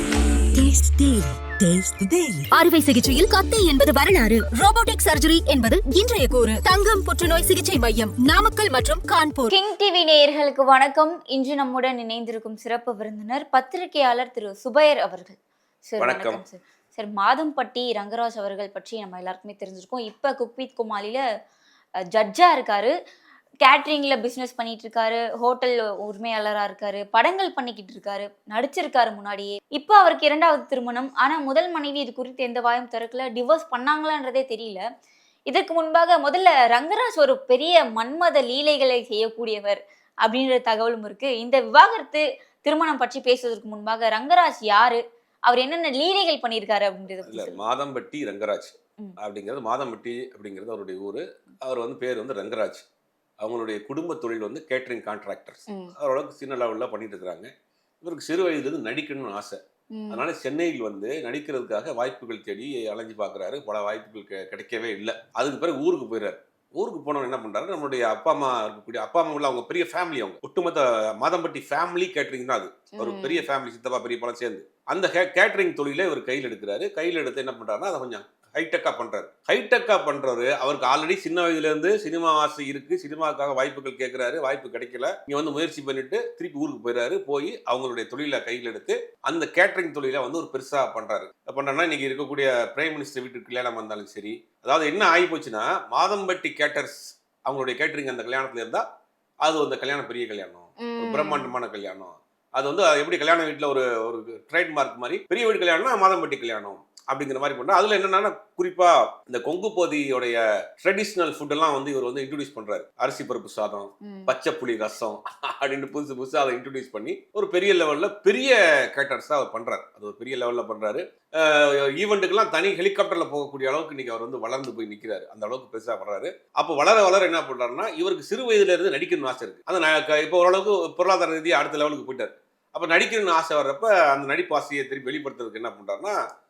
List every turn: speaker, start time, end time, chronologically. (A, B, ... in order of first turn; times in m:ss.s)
0:00.4-0:09.6 A
0:09.5-0:21.2 B
0:16.0-0:16.4 C
0:22.1-0:22.9 B
0:23.6-0:34.8 B
0:35.5-0:47.6 B
0:47.2-0:52.8 C
0:53.4-0:57.5 C
0:55.7-0:55.9 B
0:58.0-0:59.6 C
0:59.9-1:00.2 B
1:00.1-1:38.8 C
1:12.9-1:13.4 B
1:39.4-2:16.2 C
1:40.8-1:41.5 B
1:54.0-1:54.3 B